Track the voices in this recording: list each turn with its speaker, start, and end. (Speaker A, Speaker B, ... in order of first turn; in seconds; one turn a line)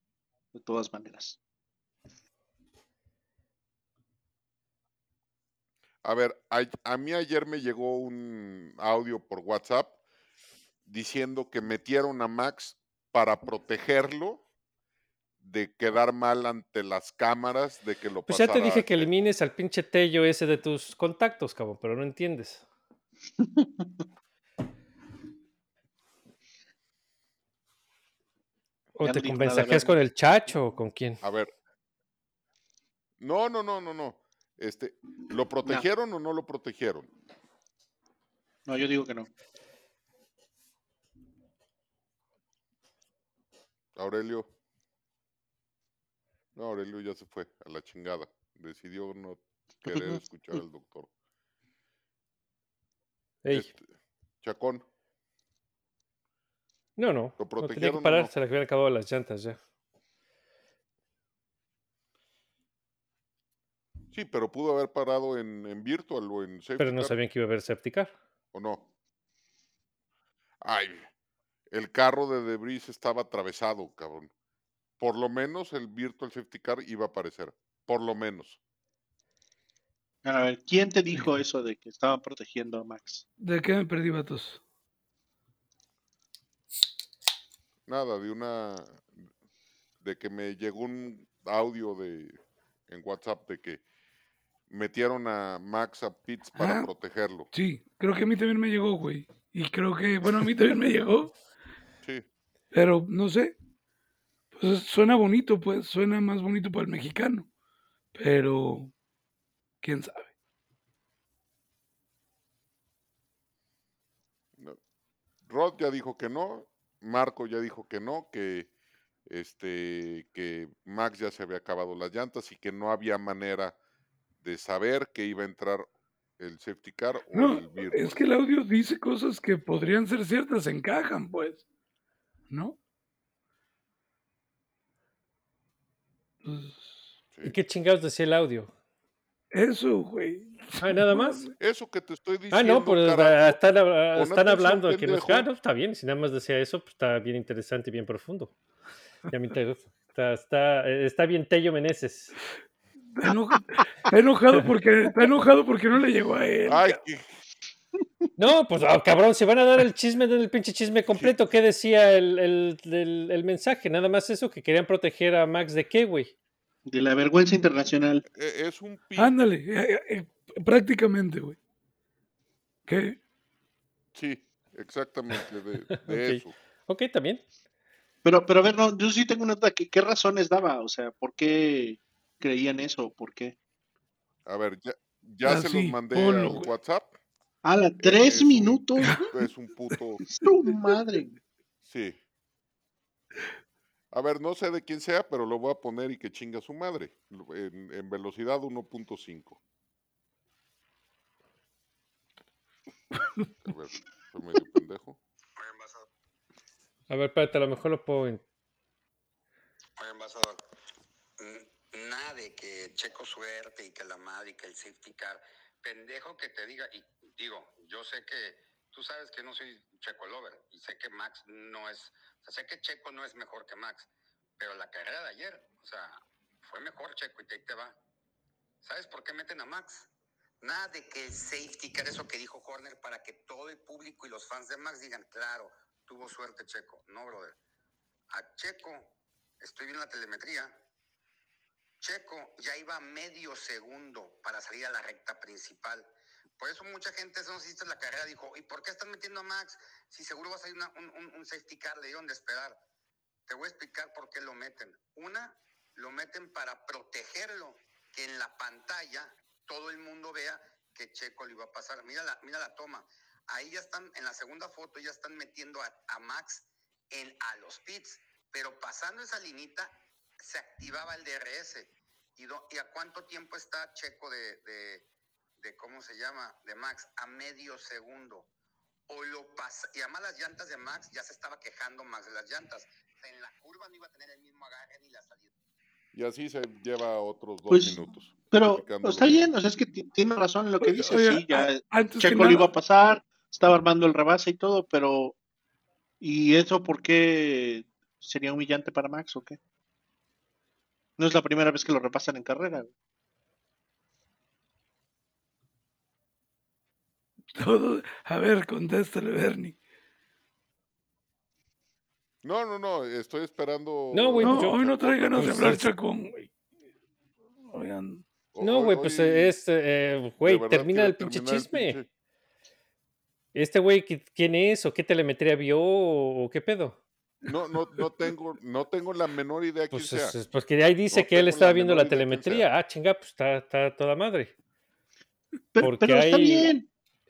Speaker A: 0.5-1.4
Speaker B: 6.0-10.0
Speaker B: 10.8-14.4
Speaker B: 15.4-19.1
Speaker C: 18.3-22.6
Speaker A: 23.4-23.9
Speaker A: 29.0-29.9
Speaker C: 29.0-31.2
Speaker B: 31.2-31.5
Speaker B: 33.2-37.1
Speaker A: 38.7-39.3
Speaker B: 44.0-44.5
Speaker B: 46.5-51.1
Speaker A: 49.9-50.2
Speaker B: 53.5-53.9
Speaker B: 54.4-54.8
Speaker C: 57.0-59.6
Speaker B: 57.4-58.3
Speaker B: 64.1-67.2
Speaker C: 66.8-68.1
Speaker B: 68.5-68.9
Speaker B: 70.6-71.1
Speaker B: 71.7-74.3
Speaker B: 75.0-78.6
Speaker A: 80.2-83.2
Speaker D: 83.4-84.6
Speaker B: 87.9-89.3
Speaker B: 90.0-93.8
Speaker B: 94.7-97.5
Speaker D: 96.5-96.9
Speaker D: 97.5-101.4
Speaker D: 102.7-103.6
Speaker D: 104.5-107.5
Speaker D: 108.2-108.9
Speaker D: 109.8-110.3
Speaker B: 115.4-118.7
Speaker B: 119.3-123.8
Speaker B: 124.4-128.2
Speaker D: 127.3-131.6
Speaker D: 132.5-132.8
Speaker D: 136.4-137.1
Speaker B: 137.3-137.6
Speaker C: 137.4-138.7
Speaker D: 139.5-141.6
Speaker C: 140.8-141.4
Speaker B: 141.6-143.6
Speaker C: 142.5-148.6
Speaker B: 144.1-145.5
Speaker C: 149.3-152.3
Speaker D: 153.1-157.0
Speaker B: 156.7-157.4
Speaker C: 158.4-166.3
Speaker B: 161.1-161.3
Speaker A: 166.9-168.2
Speaker B: 168.3-169.4
Speaker D: 169.2-171.6
Speaker D: 172.9-173.2
Speaker B: 174.2-176.6
Speaker C: 176.1-177.4
Speaker A: 178.2-183.6
Speaker B: 184.5-187.1
Speaker D: 185.4-186.7
Speaker A: 187.6-189.3
Speaker B: 188.0-190.2
Speaker D: 189.0-189.3
Speaker A: 190.3-191.4
Speaker B: 191.8-192.2
Speaker B: 194.1-199.6
Speaker B: 203.6-205.2
Speaker E: 205.6-206.1
Speaker C: 207.1-208.4
Speaker E: 210.0-210.6
Speaker E: 211.4-224.1
Speaker E: 224.6-228.0
Speaker E: 228.8-230.1
Speaker E: 230.6-237.6
Speaker E: 238.3-240.8
Speaker E: 242.0-252.8
Speaker E: 253.5-275.1
Speaker E: 275.6-278.5
Speaker E: 279.1-285.5
Speaker B: 286.1-289.5
Speaker A: 287.7-288.0
Speaker A: 288.5-295.4
Speaker D: 290.8-292.7
Speaker A: 296.2-299.6
Speaker A: 301.2-302.9
Speaker D: 307.6-309.8
Speaker B: 312.4-315.8
Speaker C: 314.1-314.8
Speaker D: 314.4-316.5
Speaker C: 315.4-315.9
Speaker D: 317.7-318.2
Speaker B: 318.5-319.6
Speaker C: 318.6-322.0
Speaker B: 320.4-322.1
Speaker C: 323.5-327.0
Speaker B: 327.4-330.4
Speaker C: 329.9-334.5
Speaker B: 331.1-332.7
Speaker A: 335.8-336.9
Speaker C: 335.8-336.7